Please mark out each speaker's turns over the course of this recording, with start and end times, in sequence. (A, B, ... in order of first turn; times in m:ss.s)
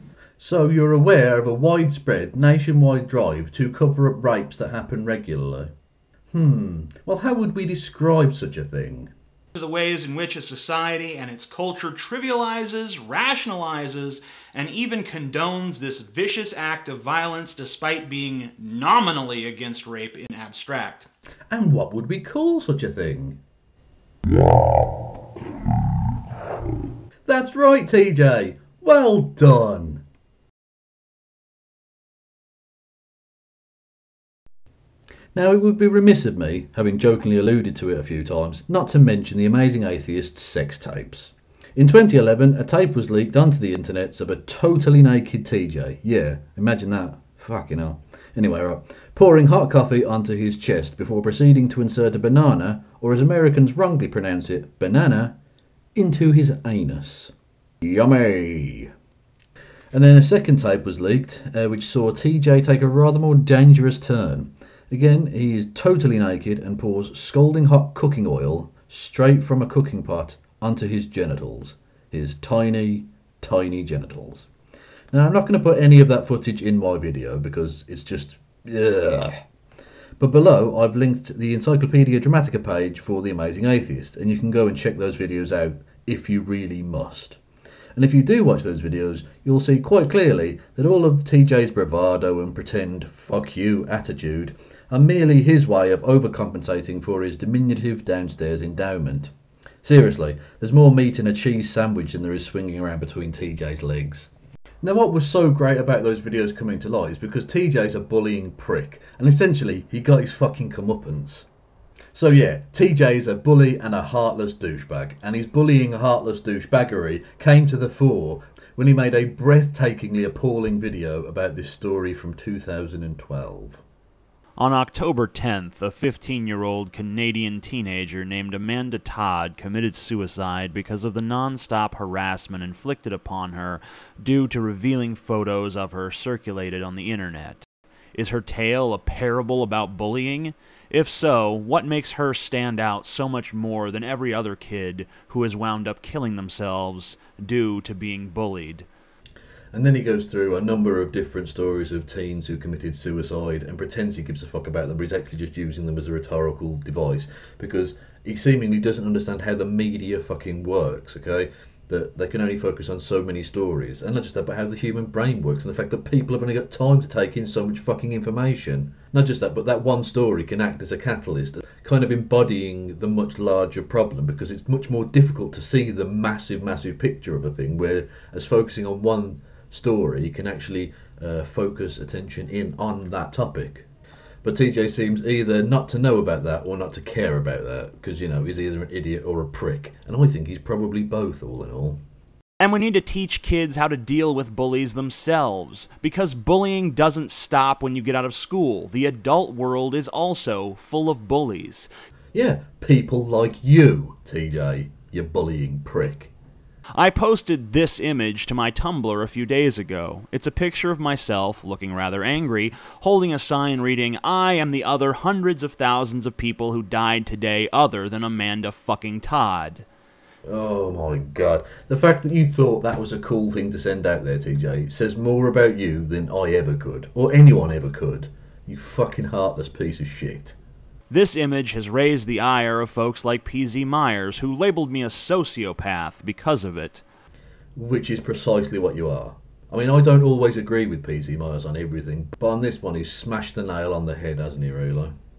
0:00.4-0:05.7 A
0:06.3-0:09.1 A
0:10.1-0:11.4 B
0:15.0-0:21.0 B
0:21.5-0:23.4 A
0:27.2-0:30.0 A
0:35.3-0:55.4 A
0:55.9-0:58.9 A
0:59.9-1:14.5 A
1:15.1-1:19.4 A
1:20.2-1:27.4 A
1:27.9-1:39.3 A
1:39.8-1:44.3 A
1:44.8-1:51.5 A
1:52.1-2:03.8 A
2:04.6-2:17.6 C
2:18.1-2:28.8 C
2:29.7-3:03.9 A
3:04.4-3:12.0 A
3:12.6-3:21.9 C
3:22.3-3:26.3 A
3:27.0-3:39.8 C
3:40.4-3:50.6 A
3:51.1-3:57.0 C
3:57.7-4:05.1 A